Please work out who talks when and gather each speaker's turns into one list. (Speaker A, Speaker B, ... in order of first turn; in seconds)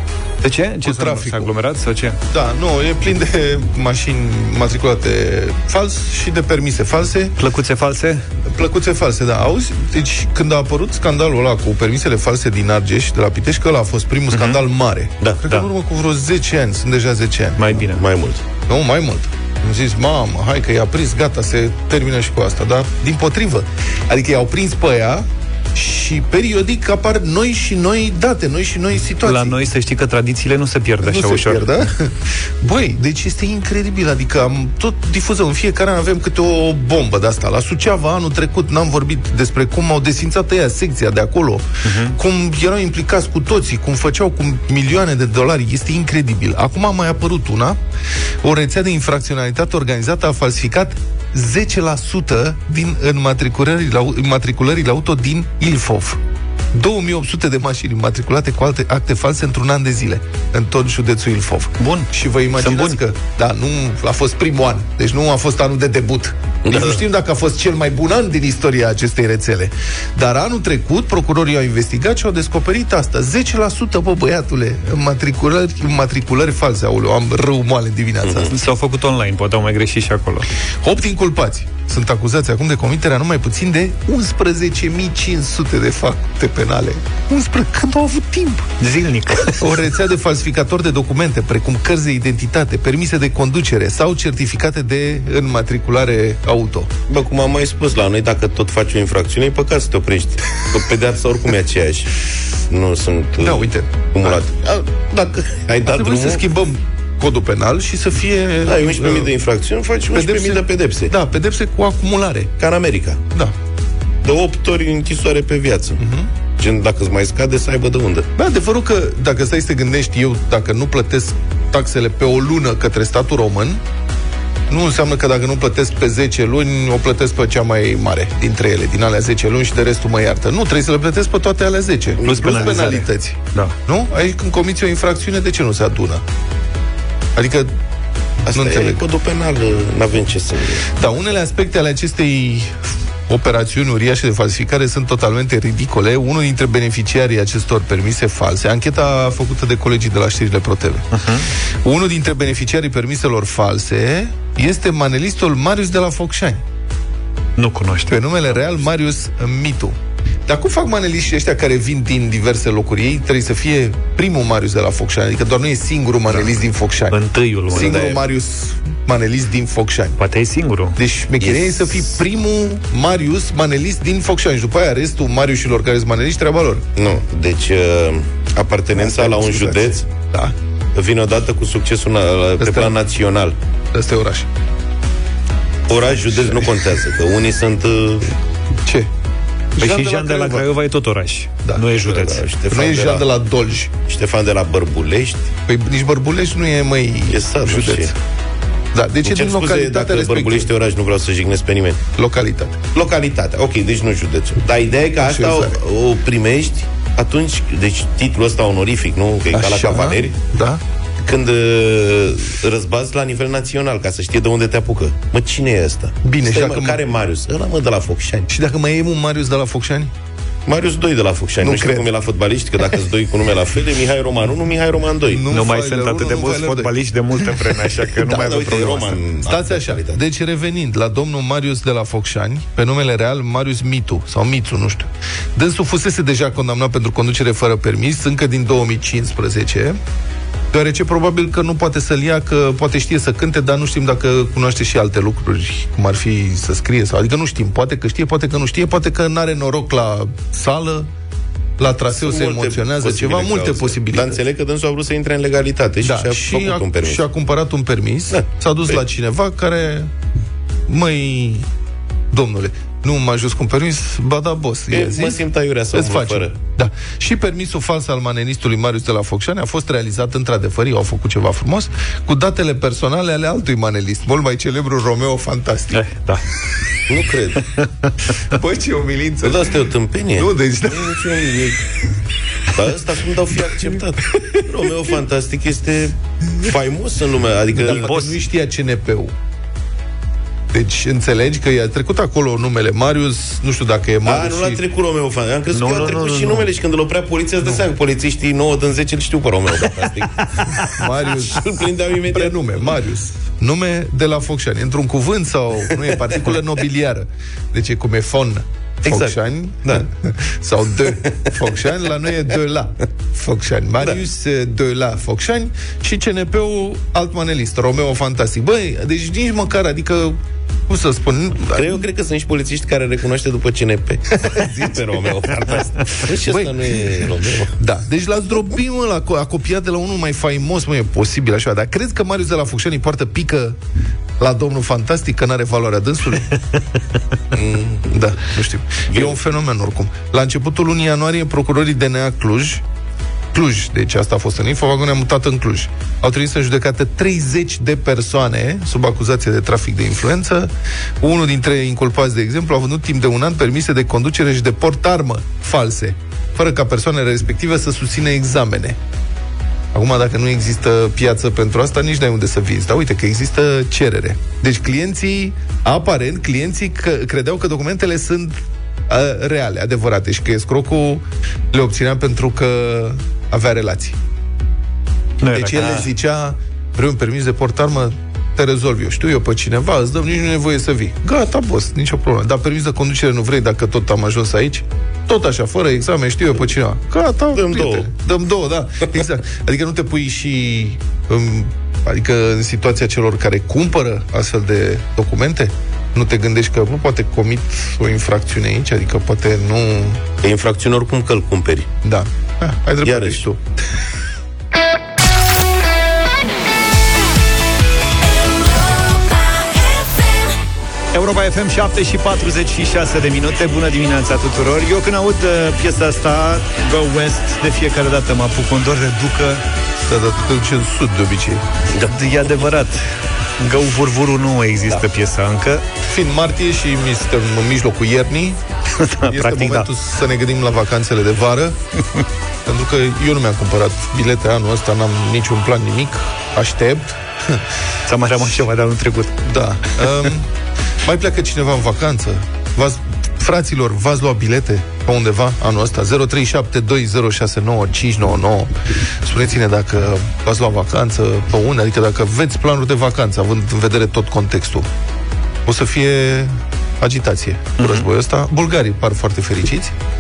Speaker A: 0.4-2.2, 7.4-8.2, 14.3-14.6, 17.6-18.0, 29.2-31.8, 41.9-42.2, 61.8-63.0, 78.5-80.5, 88.8-89.7, 132.2-133.8, 151.1-151.5, 157.6-158.6, 167.1-168.1, 170.2-171.0, 189.8-192.4, 225.5-229.2, 275.9-276.4, 277.8-278.1, 287.8-288.4, 295.7-296.7, 375.4-376.1, 411.1-419.6, 422.1-423.0, 423.6-425.8, 429.0-429.9, 438.1-439.5, 457.8-458.1
Speaker B: 0.8-1.5, 2.3-7.3, 8.5-17.8, 18.7-29.6, 31.0-47.8, 48.4-56.2, 56.7-78.5, 80.8-88.7, 89.6-96.9, 103.4-104.4, 105.8-109.3, 110.1-112.5, 116.0-116.3, 118.4-123.8, 124.7-136.2, 137.4-137.8, 138.5-139.0, 140.9-151.1, 151.8-156.6, 158.1-160.0, 160.5-170.2, 171.0-176.9, 178.9-180.5, 182.6-182.9, 183.9-184.5, 188.8-189.1, 189.8-190.7, 192.7-193.9, 195.7-198.2, 198.9-200.7, 202.2-202.8, 205.2-205.8, 209.5-210.8, 216.2-217.0, 218.5-220.1, 221.6-222.1, 225.3-228.8, 229.5-240.0, 240.7-251.1, 251.8-254.4, 256.0-260.1, 260.9-261.7, 262.3-276.0, 278.5-279.7, 280.4-281.2, 287.7-289.3, 290.7-294.8, 300.9-301.7, 302.3-322.0, 324.4-325.2, 326.4-327.3, 327.8-333.8, 334.4-336.6, 338.1-342.8, 343.5-359.0, 359.9-374.2, 375.5-400.2, 402.0-403.7, 420.1-421.6, 426.1-428.6, 429.2-431.8, 432.7-437.6, 439.5-440.5, 441.0-454.9, 455.7-459.9
Speaker C: 17.9-18.4, 66.7-67.0, 78.2-78.5, 97.1-102.2, 102.7-106.4, 108.7-111.1, 112.6-113.2, 114.2-116.0, 116.6-118.3, 132.2-132.9, 138.4-140.9, 167.7-168.2, 171.4-172.1, 177.0-180.1, 180.9-183.6, 185.9-188.4, 192.0-193.2, 194.1-195.5, 197.3-198.1, 199.2-202.0, 202.9-210.3, 211.2-218.5, 220.7-225.4, 228.2-230.2, 252.1-257.2, 264.9-266.5, 277.1-277.7, 279.4-281.8, 282.7-288.1, 294.2-300.9, 301.5-302.8, 309.1-309.3, 321.7-327.7, 337.5-338.2, 387.5-388.1, 400.4-401.9, 403.0-403.4, 421.9-422.5